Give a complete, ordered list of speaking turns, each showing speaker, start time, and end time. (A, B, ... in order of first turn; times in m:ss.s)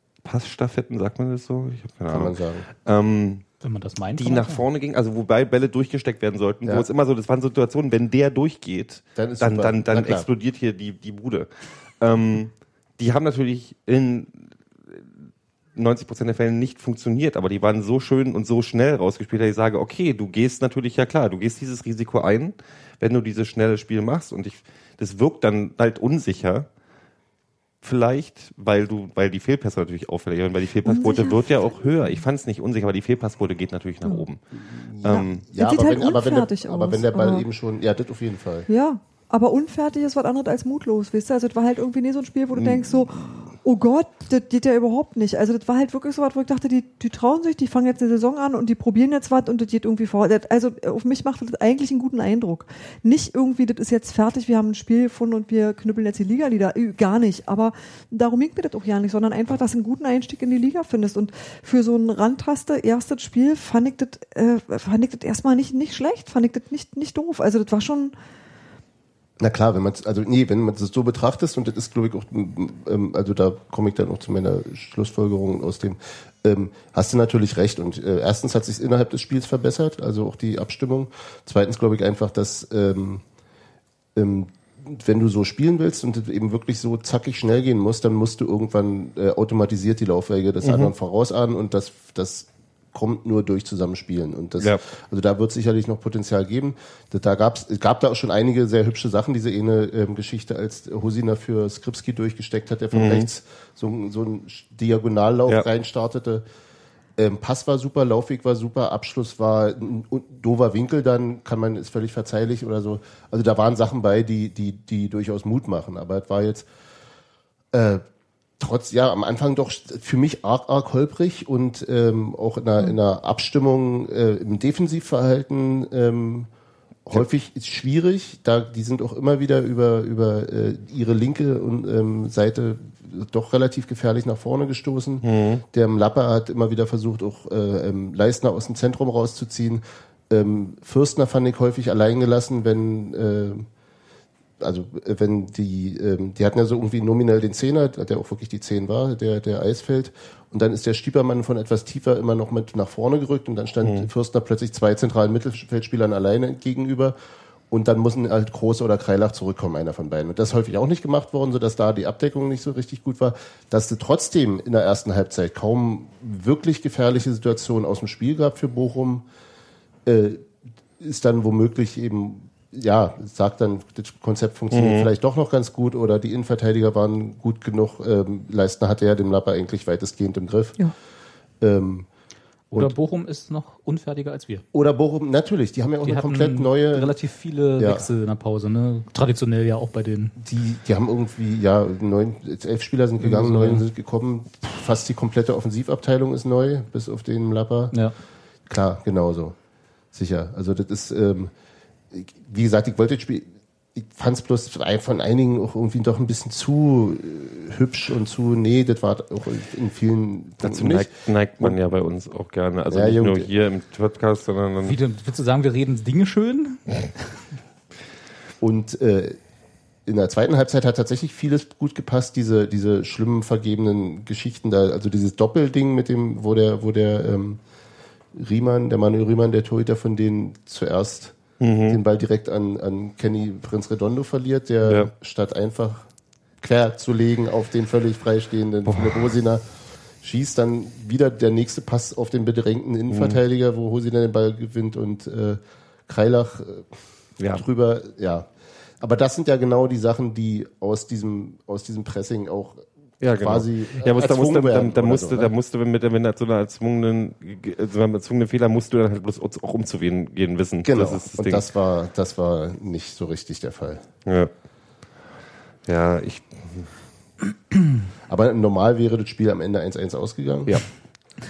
0:00.2-0:03.4 A
0:02.1-0:02.7 B
0:03.6-0:04.6 C
0:04.2-0:11.5 A
0:09.2-0:10.3 B
0:12.0-0:15.0 A
0:15.8-0:26.7 A
0:27.8-0:34.4 A
0:30.8-0:31.5 D
0:34.6-0:38.7 B
0:35.0-0:35.4 A
0:35.0-0:37.4 D
0:38.7-1:08.1 D
0:42.5-0:43.1 A
1:09.4-1:23.2 B
1:24.1-1:46.4 B
1:30.6-1:30.9 A
1:42.9-1:43.3 A
1:47.2-1:56.7 B
1:57.7-1:58.0 B
1:58.6-2:06.5 B
2:07.0-2:23.7 B
2:15.2-2:15.6 A
2:24.6-2:37.1 B
2:37.7-2:49.2 B
2:50.0-3:00.8 B
2:54.7-2:55.1 A
3:01.6-3:02.1 B
3:02.7-3:04.6 C
3:04.7-3:07.1 B
3:06.0-3:10.3 C
3:07.8-3:08.1 B
3:10.4-3:17.9 B
3:13.2-3:13.8 C
3:18.7-3:19.6 B
3:20.1-3:21.5 B
3:22.1-3:31.8 B
3:30.6-3:35.0 A
3:32.9-3:33.5 B
3:34.8-3:37.1 C
3:38.6-3:39.4 B
3:40.0-3:47.6 B
3:48.3-3:56.1 B
3:51.6-3:52.0 A
3:56.6-3:59.7 B
3:58.8-3:59.3 A
4:00.2-4:06.9 B
4:03.1-4:03.4 A
4:07.4-4:07.6 A
4:07.5-4:08.5 B
4:09.0-4:15.5 B
4:13.2-4:21.6 A
4:20.8-4:24.0 B
4:24.2-4:24.5 A
4:25.9-4:26.9 A
4:28.3-4:30.8 B